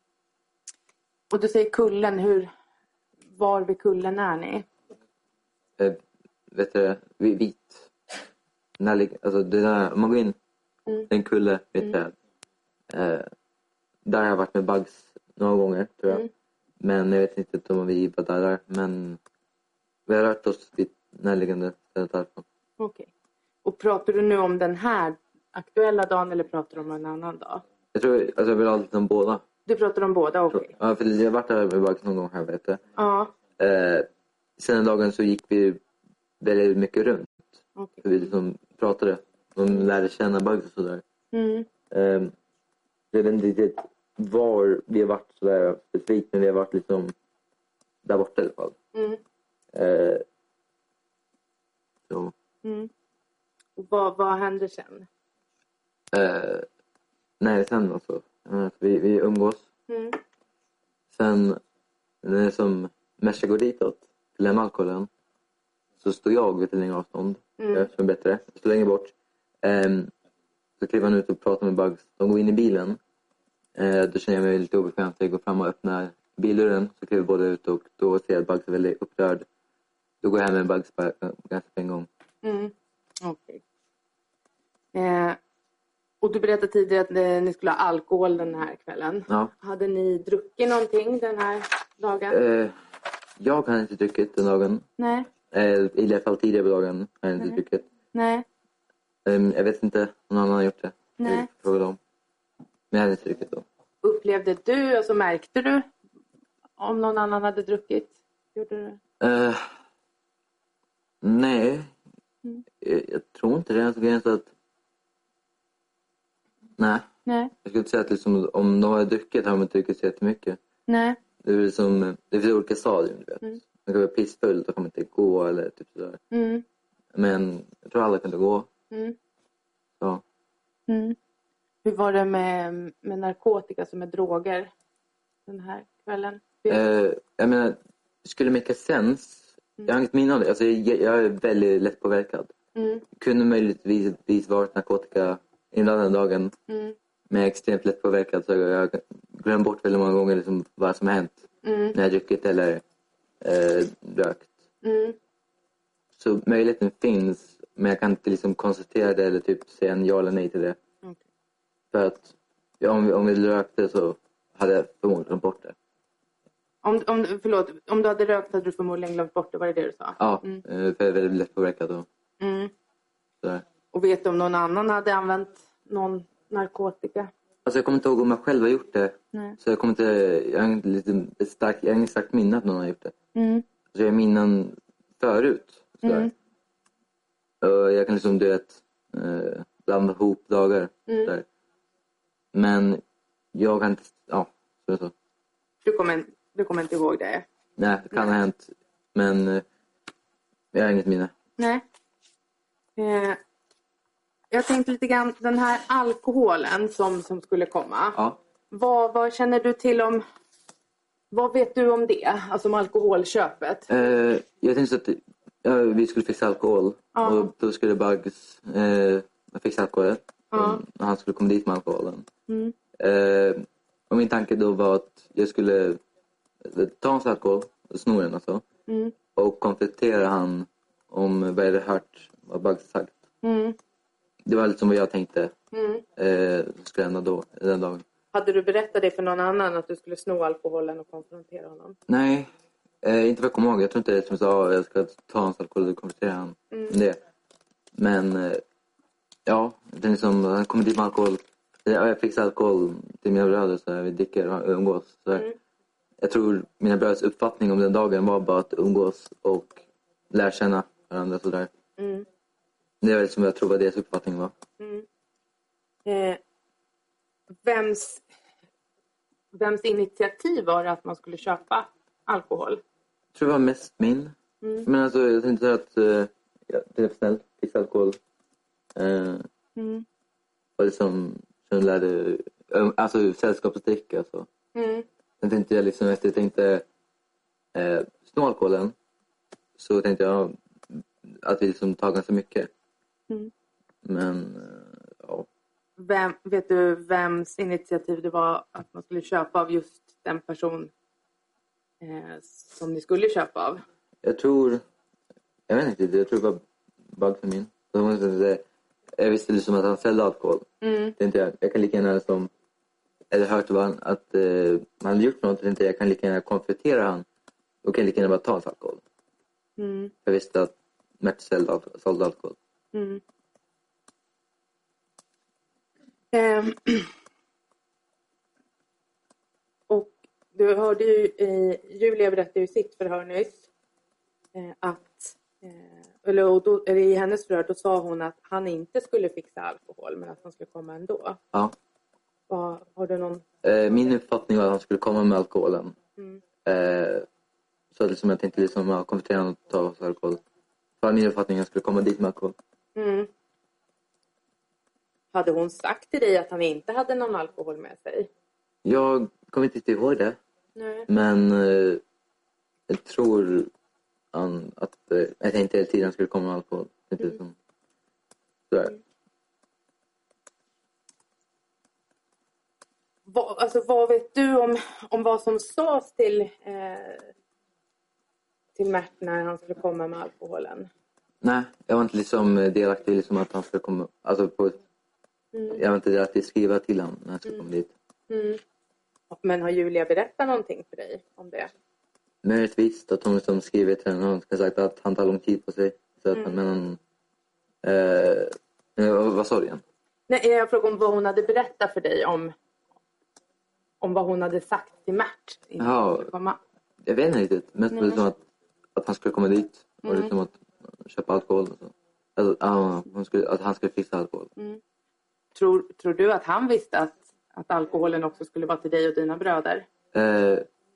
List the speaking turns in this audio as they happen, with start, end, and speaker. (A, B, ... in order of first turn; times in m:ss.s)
0:01.3-0:02.5 A
0:03.4-0:04.7 A
0:06.5-0:07.9 B
0:08.8-0:10.4 B
0:11.1-0:12.1 B
0:12.9-0:13.3 B
0:14.0-0:16.2 B
0:16.8-0:19.2 B
0:20.1-0:22.4 B
0:22.8-0:23.1 A
0:23.6-0:27.6 A
0:27.9-0:29.4 B
0:29.7-0:30.7 A
0:30.5-0:32.8 B
0:33.0-0:33.3 A
0:33.6-0:35.8 B
0:36.4-0:41.0 B
0:37.8-0:38.0 A
0:41.3-0:41.7 A
0:41.9-0:42.3 B
0:43.1-0:47.1 B
0:48.0-0:48.8 B
0:48.9-0:49.2 A
0:49.7-0:50.2 B
0:52.1-0:52.3 B
0:52.6-0:52.9 A
0:53.8-0:55.1 A
0:56.1-0:56.7 B
0:57.4-0:59.7 B
0:59.9-1:00.2 A
1:01.1-1:01.6 B
1:02.2-1:05.1 B
1:06.0-1:10.1 B
1:07.6-1:07.9 A
1:10.8-1:13.0 B
1:13.8-1:19.5 B
1:20.2-1:22.1 B
1:22.4-1:23.6 A
1:24.9-1:25.4 A
1:26.2-1:32.4 A
1:32.3-1:32.7 B
1:33.4-1:34.8 B
1:35.0-1:35.3 A
1:35.5-1:37.9 B
1:38.1-1:38.5 A
1:39.2-1:42.0 B
1:41.2-1:41.5 A
1:42.9-1:43.6 B
1:44.0-1:45.9 A
1:46.8-1:49.0 A
1:49.2-1:49.7 B
1:51.2-1:51.9 B
1:52.8-1:54.5 B
1:56.8-1:57.1 B
1:57.3-1:57.5 A
1:57.6-2:00.6 B
2:00.9-2:01.2 A
2:01.4-2:06.2 B
2:06.3-2:06.6 A
2:07.1-2:08.7 B
2:08.9-2:09.2 A
2:10.9-2:11.2 A
2:11.8-2:14.7 A
2:15.5-2:16.8 A
2:16.7-2:22.5 B
2:22.8-2:23.0 A
2:23.2-2:26.5 B
2:26.7-2:27.0 A
2:27.3-2:32.8 B
2:31.6-2:32.0 A
2:33.4-2:34.5 B
2:34.8-2:35.2 A
2:36.2-2:40.8 B
2:41.9-2:45.8 B
2:46.8-2:50.6 A
2:50.2-2:52.1 B
2:52.4-2:52.7 A
2:53.9-2:57.3 A
2:57.7-3:03.1 B
3:03.4-3:03.7 A
3:03.9-3:06.3 B
3:06.0-3:06.3 A
3:07.6-3:11.4 B
3:11.1-3:11.3 A
3:12.5-3:13.0 B
3:13.5-3:15.1 B
3:15.8-3:17.4 A
3:17.8-3:19.6 B
3:20.7-3:21.3 B
3:21.6-3:21.8 A
3:23.0-3:23.4 A
3:24.5-3:28.2 A
3:28.7-3:30.2 A
3:31.3-3:33.9 A
3:33.9-3:42.3 B
3:37.2-3:37.5 A
3:40.5-3:40.8 A
3:42.5-3:42.7 A
3:43.0-3:46.0 B
3:46.6-3:48.6 B
3:48.9-3:49.1 A
3:49.4-3:53.2 B
3:53.4-3:53.8 A
3:54.5-3:55.5 B
3:55.7-3:56.0 A
3:56.2-3:58.0 B
3:58.3-4:02.0 A
4:02.1-4:02.5 B
4:03.0-4:07.2 B
4:06.7-4:07.0 A
4:08.0-4:08.6 B
4:09.5-4:15.5 B
4:16.2-4:21.7 B
4:22.0-4:22.3 A
4:23.0-4:24.5 B
4:24.8-4:25.0 A
4:26.0-4:26.4 A
4:27.6-4:28.2 A
4:29.5-4:32.8 A
4:33.3-4:38.2 B
4:34.6-4:34.9 A
4:39.0-4:39.5 B
4:39.8-4:40.0 A
4:40.8-4:44.5 B
4:44.8-4:45.1 A
4:45.4-4:46.9 B
4:47.7-4:49.0 B
4:49.8-4:52.7 B
4:54.0-4:55.5 B
4:56.0-5:00.9 A
5:02.0-5:03.8 A
5:04.2-5:04.8 B
5:05.7-5:06.6 B
5:07.1-5:08.6 B
5:09.2-5:12.5 B
5:10.8-5:11.2 A
5:13.3-5:17.2 B
5:17.8-5:19.0 B
5:19.8-5:20.1 A
5:20.2-5:22.6 B
5:22.9-5:23.2 A
5:26.3-5:27.1 A
5:29.9-5:33.7 A
5:34.6-5:41.4 A
5:42.5-5:43.4 A
5:43.6-5:46.0 B
5:46.6-5:47.3 B
5:47.9-5:50.4 B
5:51.0-5:52.6 B
5:53.0-5:53.3 A
5:55.3-5:58.3 A
5:58.8-6:00.4 B
6:00.8-6:01.1 A
6:01.1-6:02.0 B
6:02.9-6:03.7 B
6:04.3-6:07.6 B
6:08.7-6:09.0 B
6:13.3-6:17.3 A
6:18.8-6:20.9 A
6:21.4-6:24.8 B
6:25.5-6:25.8 A
6:25.7-6:27.9 B
6:28.3-6:28.6 A
6:29.3-6:31.7 A
6:32.4-6:37.0 B
6:37.8-6:39.8 B
6:40.3-6:42.5 A
6:44.0-6:46.6 A
6:45.8-6:46.3 B
6:47.0-6:48.4 B
6:47.9-6:48.2 A
6:49.0-6:54.5 B
6:50.0-6:50.3 A
6:55.6-6:59.8 A
7:00.1-7:00.7 B